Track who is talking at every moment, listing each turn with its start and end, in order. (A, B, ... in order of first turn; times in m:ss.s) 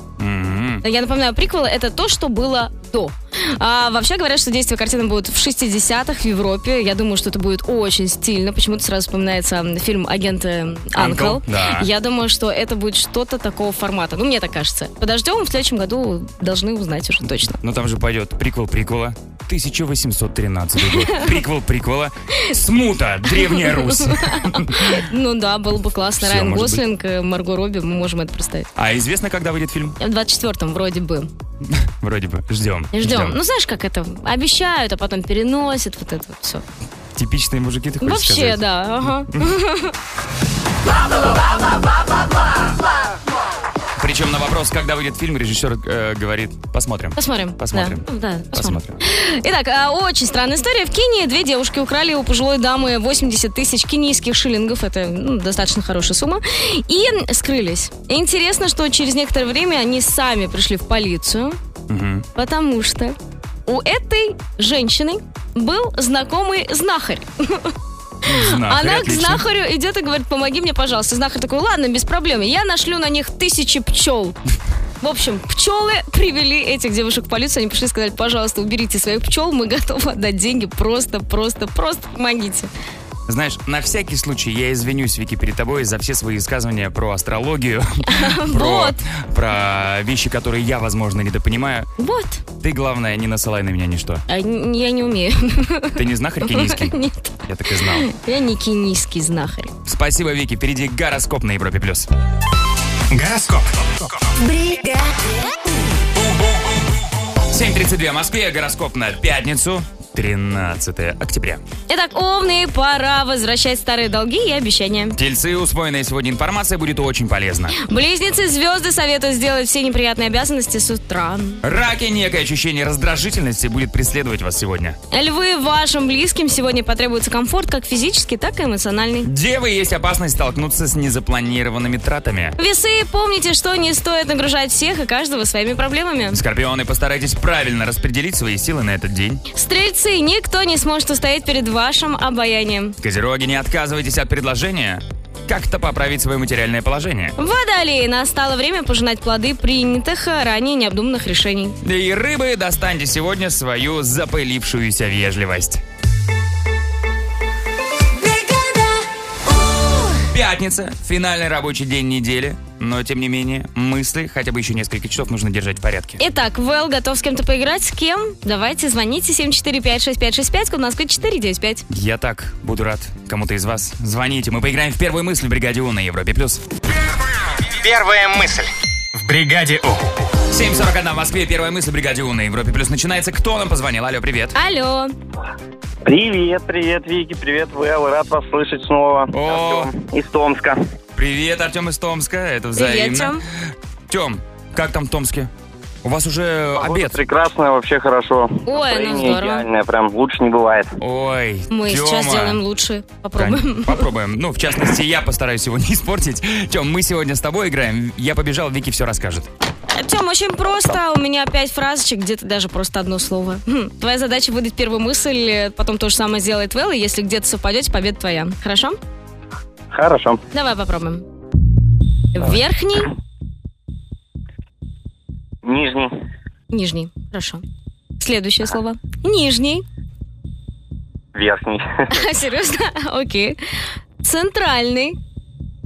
0:00.2-0:00.8 A
0:00.8-0:17.6 B
0:11.0-0:11.9 A
0:17.5-0:25.0 A
0:20.8-0:21.2 B
0:23.3-0:28.7 B
0:26.2-0:26.8 A
0:28.8-0:30.0 A
0:30.0-0:31.3 B
0:31.7-0:33.4 A
0:32.9-0:36.6 B
0:37.2-0:39.5 A
0:38.0-0:39.9 B
0:44.0-0:49.0 A
0:47.2-1:01.6 B
1:01.9-1:02.3 A
1:02.4-1:07.7 B
1:08.3-1:09.4 A
1:08.3-1:14.4 B
1:15.0-1:22.7 B
1:23.3-1:31.9 A
1:28.1-1:29.0 B
1:32.0-1:32.4 B
1:32.6-1:34.2 A
1:34.3-1:37.4 B
1:36.0-1:38.1 A
1:37.9-1:39.7 B
1:39.9-1:42.1 A
1:43.1-1:44.2 C
1:47.5-1:51.6 A
1:51.9-1:55.2 B
1:55.2-1:57.8 A
1:57.7-2:01.6 B
2:01.6-2:05.0 A
2:05.1-2:09.3 B
2:09.2-2:12.6 A
2:12.6-2:16.4 B
2:16.3-2:19.4 A
2:19.6-2:23.0 B
2:23.0-2:27.3 A
2:27.4-2:31.8 B
2:31.8-2:35.8 A
2:40.3-2:46.2 A
2:46.2-2:51.8 B
2:51.9-2:56.6 A
2:57.7-3:00.2 C
3:00.5-3:04.5 A
3:04.6-3:05.1 B
3:06.0-3:10.8 D
3:09.3-3:09.9 A
3:11.2-3:13.4 A
3:12.8-3:13.4 B
3:14.1-3:15.5 A
3:16.0-3:17.2 A
3:16.8-3:20.9 D
3:18.7-3:19.7 B
3:21.0-3:22.6 A
3:21.7-3:24.1 B
3:23.4-3:29.5 A
3:29.9-3:39.0 B
3:39.9-3:40.4 D
3:40.5-3:41.2 B
3:42.4-3:43.1 B
3:45.6-3:46.1 D
3:46.7-3:47.6 B
3:48.2-3:49.8 B
3:51.4-3:51.9 D
3:52.1-3:53.6 B
3:54.2-3:55.2 B